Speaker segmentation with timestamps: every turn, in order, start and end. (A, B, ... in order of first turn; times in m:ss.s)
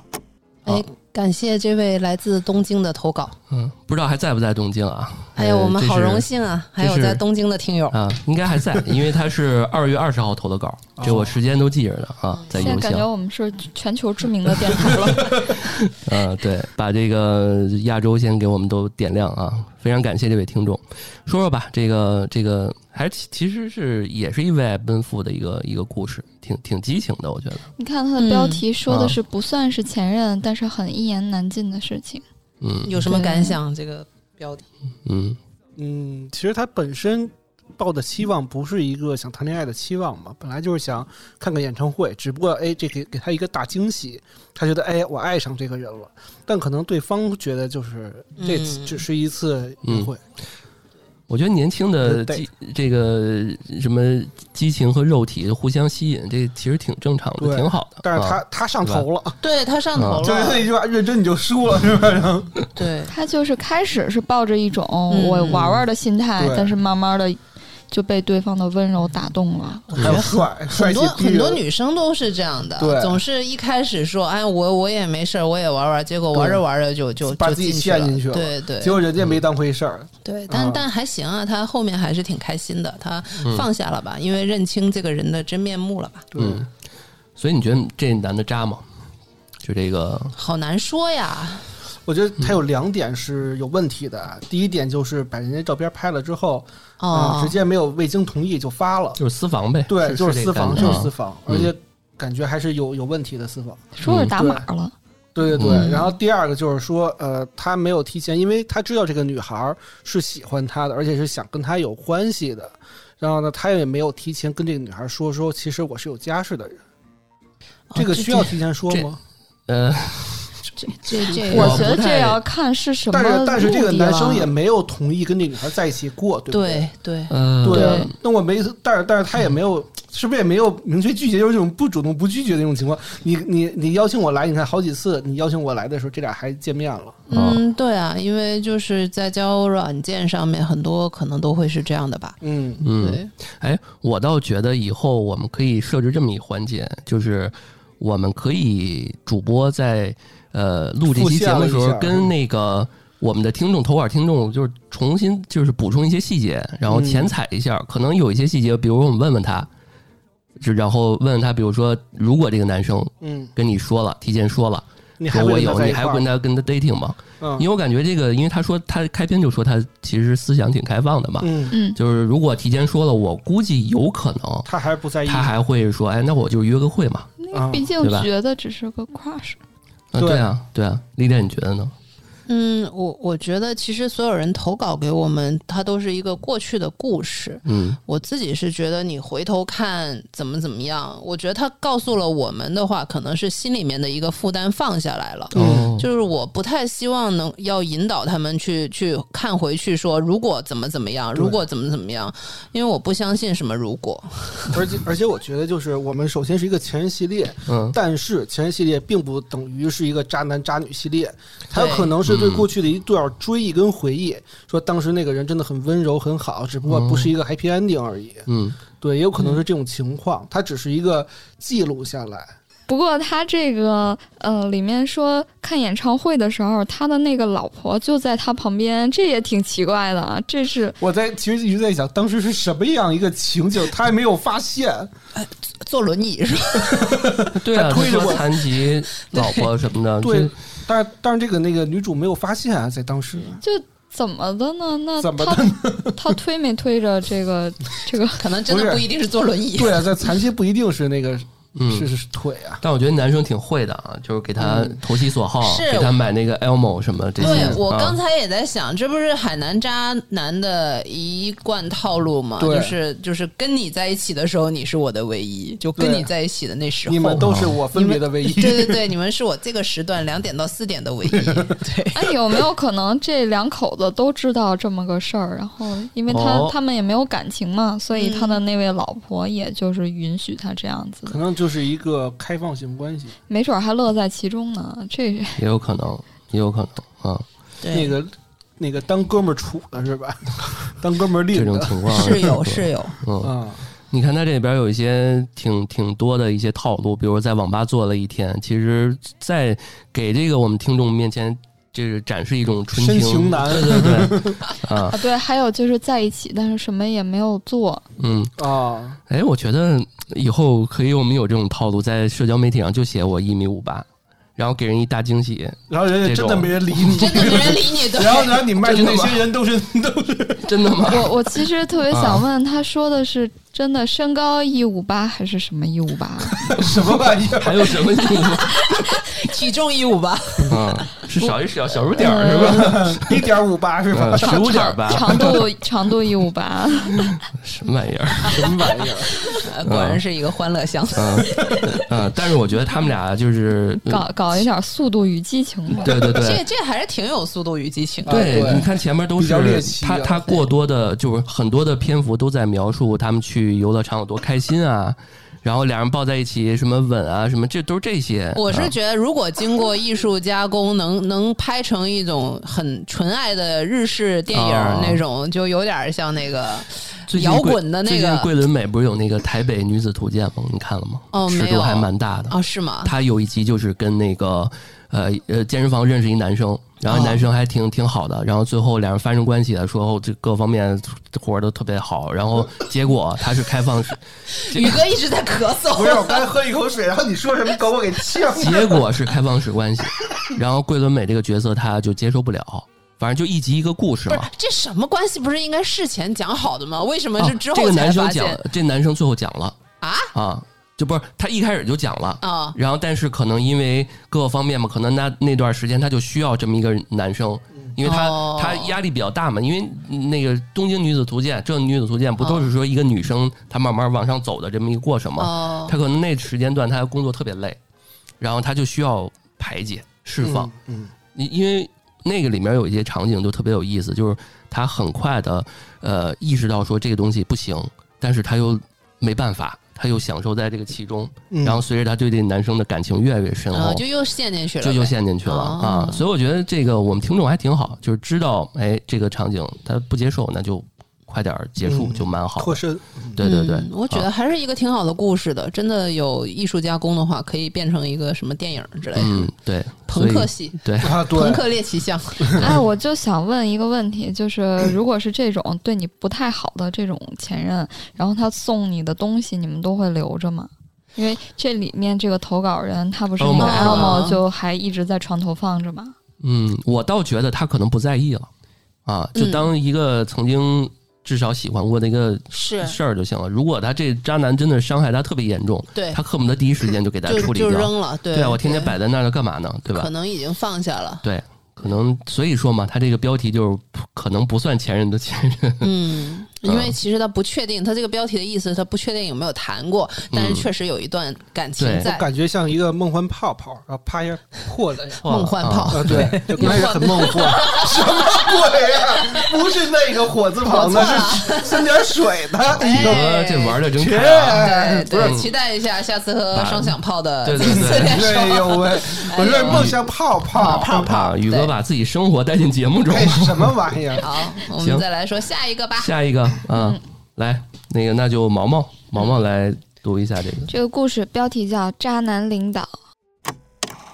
0:00.6-0:03.4 A
0:03.5-0:06.3 B
0:05.4-0:08.0 A
0:06.8-0:07.2 B
0:07.9-0:13.1 B
0:11.0-0:11.3 C
0:12.5-0:15.6 D
0:15.4-0:27.7 B
0:27.8-0:32.2 D
0:28.2-0:28.6 A
0:28.9-0:29.2 B
0:32.6-0:33.2 B
0:32.8-0:34.7 A
0:33.1-0:33.6 D
0:35.1-0:35.4 B
0:35.8-0:50.2 C
0:48.4-0:49.0 A
0:49.8-0:50.1 B
0:51.3-0:59.0 B
0:52.0-0:52.4 C
0:57.4-0:59.4 C
0:59.4-1:00.7 A
1:00.0-1:00.3 B
1:00.2-1:02.6 C
1:02.8-1:03.1 A
1:03.1-1:09.9 D
1:05.1-1:05.8 A
1:06.4-1:06.7 C
1:09.9-1:19.1 A
1:10.0-1:11.6 C
1:12.8-1:13.2 C
1:16.3-1:16.6 C
1:17.3-1:20.8 C
1:20.2-1:26.3 A
1:26.3-1:26.6 C
1:26.4-1:26.7 B
1:27.4-1:28.8 B
1:29.6-1:30.4 B
1:30.4-1:31.7 A
1:32.1-1:39.2 C
1:37.0-1:37.6 A
1:39.2-1:41.7 B
1:39.9-1:44.7 C
1:44.0-1:45.0 D
1:44.1-1:44.3 B
1:45.4-1:56.8 C
1:45.5-1:45.9 B
1:45.6-1:46.1 A
1:57.9-1:58.6 A
1:58.0-1:59.2 C
1:59.7-2:00.5 B
2:00.8-2:02.0 A
2:01.4-2:02.4 B
2:01.4-2:04.4 D
2:03.1-2:06.9 C
2:03.9-2:04.5 A
2:06.5-2:07.3 A
2:07.3-2:08.1 B
2:07.6-2:17.2 C
2:07.7-2:08.1 D
2:17.3-2:22.4 A
2:17.3-2:17.6 B
2:22.4-2:22.8 C
2:22.8-2:39.7 B
2:22.9-2:23.3 A
2:31.1-2:32.3 C
2:36.9-2:37.3 C
2:40.6-2:54.7 B
2:43.2-2:43.5 C
2:45.2-2:46.3 C
2:47.4-2:47.7 C
2:51.4-2:51.8 C
2:51.7-2:52.0 D
2:54.7-2:55.5 C
2:55.2-2:57.3 B
2:57.4-2:59.6 D
2:57.5-2:57.9 C
2:58.0-2:58.3 B
3:00.1-3:01.9 B
3:00.2-3:00.5 C
3:02.5-3:24.8 A
3:07.7-3:08.0 B
3:15.5-3:16.1 B
3:15.6-3:15.9 C
3:24.7-3:38.5 C
3:27.7-3:28.0 B
3:31.7-3:32.2 A
3:32.3-3:32.7 B
3:36.9-3:37.3 B
3:38.5-3:38.8 B
3:39.0-3:42.5 C
3:39.4-3:39.6 A
3:42.9-3:51.0 D
3:51.0-3:55.1 C
3:55.4-3:57.4 A
3:56.8-3:58.6 C
3:57.5-4:00.5 B
3:58.1-3:58.4 A
3:59.3-3:59.7 A
4:00.2-4:03.6 C
4:03.6-4:08.5 D
4:05.2-4:06.2 C
4:08.4-4:10.0 A
4:08.7-4:09.0 C
4:09.8-4:12.8 C
4:11.8-4:12.1 B
4:12.8-4:18.2 B
4:14.6-4:15.0 C
4:15.6-4:16.2 A
4:17.4-4:17.8 C
4:17.4-4:32.2 A
4:22.6-4:23.0 C
4:26.0-4:26.3 C
4:27.1-4:29.0 C
4:27.4-4:27.7 B
4:31.4-4:31.7 C
4:32.1-4:41.4 D
4:36.3-4:36.8 B
4:38.2-4:38.6 A
4:41.3-4:43.4 C
4:43.5-4:45.6 D
4:45.6-4:47.4 B
4:47.8-4:48.2 A
4:47.9-4:52.4 C
4:51.5-4:53.5 B
4:52.1-4:53.2 A
4:53.4-4:53.9 C
4:54.1-5:05.2 B
5:02.9-5:04.7 C
5:05.1-5:08.0 D
5:08.2-5:08.5 B
5:08.6-5:09.2 C
5:09.3-5:17.7 B
5:15.9-5:20.7 C
5:17.2-5:18.7 A
5:18.8-5:19.5 B
5:20.6-5:21.3 B
5:21.0-5:26.7 D
5:22.1-5:22.4 B
5:26.6-5:28.0 C
5:26.8-5:29.2 B
5:28.4-5:31.5 A
5:30.7-5:33.5 B
5:32.2-5:32.8 D
5:32.4-5:35.5 C
5:34.1-5:35.6 B
5:34.4-5:37.4 D
5:37.5-5:39.0 B
5:38.4-5:39.4 C
5:39.6-5:41.8 A
5:39.9-5:40.2 B
5:41.2-5:44.2 B
5:44.0-5:46.2 D
5:46.0-5:46.6 B
5:46.2-5:48.8 A
5:48.3-5:50.6 C
5:48.3-5:59.0 B
5:58.6-6:08.5 A
6:04.5-6:05.2 B
6:07.3-6:25.0 B
6:11.3-6:13.1 A
6:17.1-6:17.5 A
6:24.6-6:26.5 A
6:26.0-6:29.0 C
6:28.5-6:34.5 B
6:34.3-6:38.6 A
6:37.4-6:39.8 B
6:40.0-6:40.3 A
6:40.3-6:57.8 B
6:42.4-6:42.8 A
6:48.0-6:49.0 A
6:52.4-6:52.7 A
6:55.4-6:56.0 A
6:58.4-7:00.7 B
7:00.4-7:01.1 C
7:01.3-7:14.0 B
7:11.5-7:11.8 C
7:13.7-7:16.2 A
7:14.8-7:24.3 B
7:21.8-7:23.4 C
7:23.4-7:29.5 A
7:29.2-7:31.2 B
7:30.1-7:32.7 A
7:31.0-7:31.6 C
7:32.6-7:46.2 D
7:43.4-7:44.2 B
7:43.6-7:44.4 A
7:46.4-7:48.5 B
7:49.1-8:00.1 B
7:49.4-7:49.7 A
7:52.5-7:53.0 A
7:56.0-7:56.2 A
7:57.3-7:59.0 A
7:59.9-8:01.2 A
8:01.2-8:05.9 B
8:05.8-8:12.3 A
8:06.6-8:07.0 B
8:10.3-8:10.7 B
8:11.8-8:12.1 B
8:12.0-8:15.2 C
8:15.2-8:19.7 A
8:15.2-8:16.9 B
8:15.9-8:23.2 C
8:20.6-8:22.0 A
8:22.7-8:23.8 A
8:22.8-8:25.5 B
8:23.9-8:25.4 C
8:24.5-8:31.7 A
8:26.5-8:28.5 B
8:27.6-8:31.1 C
8:29.4-8:30.0 B
8:30.7-8:33.8 B
8:33.1-8:34.3 C
8:34.2-8:36.1 A
8:34.8-8:35.0 B
8:36.0-8:40.7 B
8:36.7-8:37.0 D
8:40.7-8:42.9 D